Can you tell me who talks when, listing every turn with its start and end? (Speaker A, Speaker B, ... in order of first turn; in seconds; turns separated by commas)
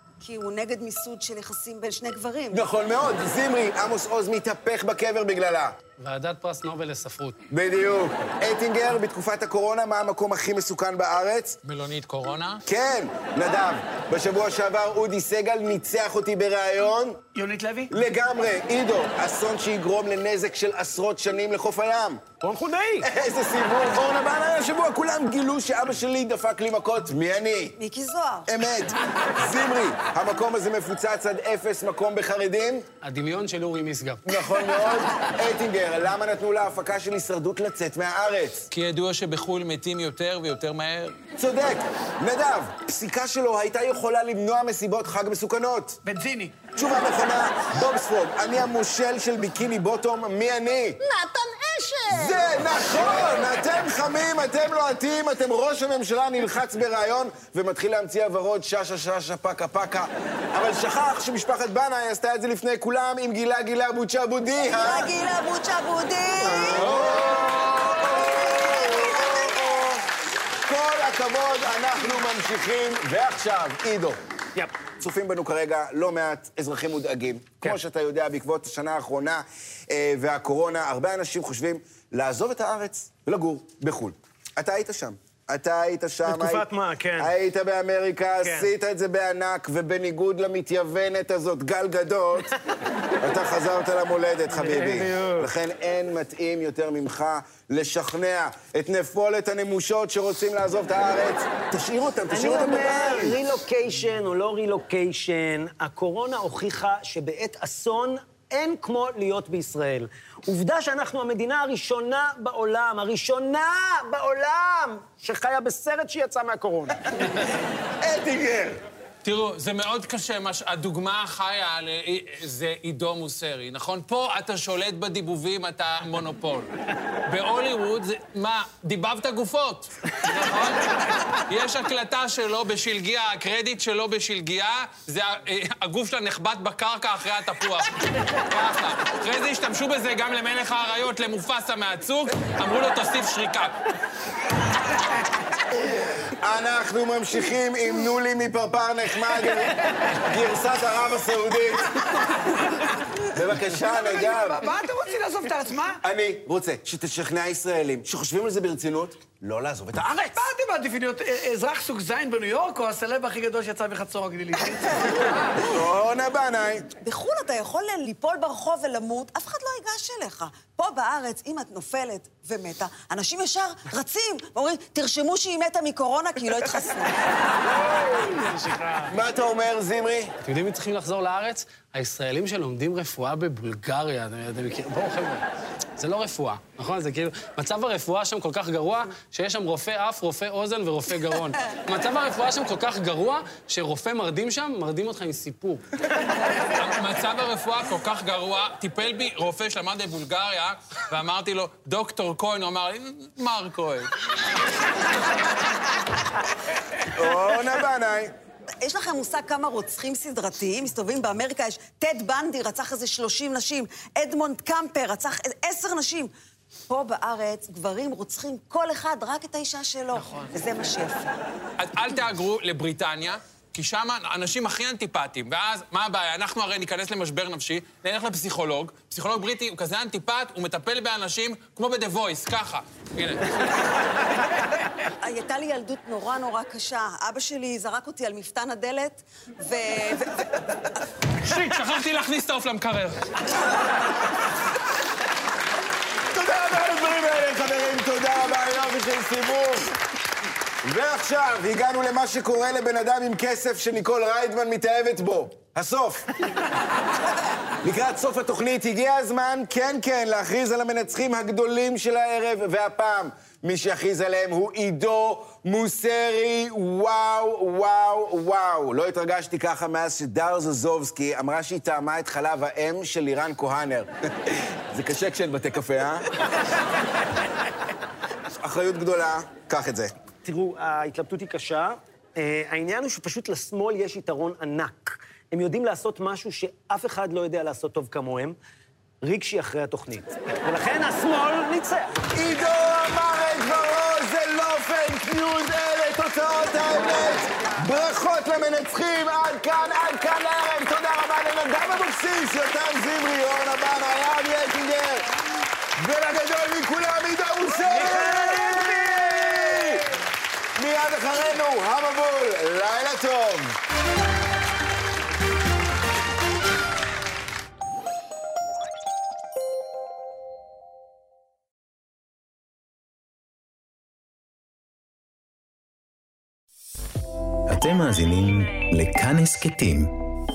Speaker A: 0.2-2.6, Speaker B: 2.5-5.8, Speaker C: 6.0-7.4, Speaker B: 7.5-11.6, Speaker D: 11.6-12.6, Speaker B: 12.7-17.2, Speaker E: 17.4-17.9, Speaker B: 17.9-22.2, Speaker F: 22.4-23.1, Speaker B: 23.0-27.8, Speaker A: 27.8-28.5, Speaker B: 28.5-32.9, Speaker C: 33.0-34.2, Speaker B: 34.2-38.7, Speaker D: 38.7-41.1, Speaker B: 41.4-46.0, Speaker E: 46.0-46.6, Speaker B: 46.7-51.0, Speaker B: 52.1-65.1, Speaker A: 64.7-67.0, Speaker B: 66.4-70.0, Speaker A: 68.2-69.3, Speaker B: 70.7-74.2, Speaker B: 75.0-86.7, Speaker F: 86.3-87.3, Speaker B: 87.2-92.5, Speaker F: 88.4-88.7, Speaker B: 93.2-103.4, Speaker F: 94.6-95.5, Speaker F: 102.3-117.0, Speaker B: 118.0-118.8, Speaker D: 119.2-126.7, Speaker D: 127.3-130.8, Speaker D: 131.5-143.7, Speaker B: 146.3-152.2, Speaker B: 153.2-154.7, Speaker E: 153.8-156.0, Speaker B: 156.0-160.5, Speaker E: 160.1-165.6, Speaker B: 165.6-166.9, Speaker A: 167.0-177.2, Speaker F: 178.2-179.1, Speaker B: 179.1-180.3, Speaker C: 180.4-185.4, Speaker C: 186.0-195.9, Speaker D: 196.7-204.1, Speaker B: 207.1-208.3, Speaker A: 208.8-216.3, Speaker A: 216.9-221.4, Speaker E: 220.2-220.5, Speaker D: 221.8-233.5, Speaker A: 235.2-240.5, Speaker D: 241.4-243.2, Speaker B: 246.3-249.9, Speaker B: 250.8-256.2, Speaker B: 257.8-276.2, Speaker B: 278.5-280.1, Speaker F: 280.4-288.6, Speaker F: 289.2-292.1, Speaker B: 292.4-305.3, Speaker B: 306.0-310.1, Speaker F: 307.8-309.9, Speaker B: 310.8-313.8, Speaker G: 327.7-330.1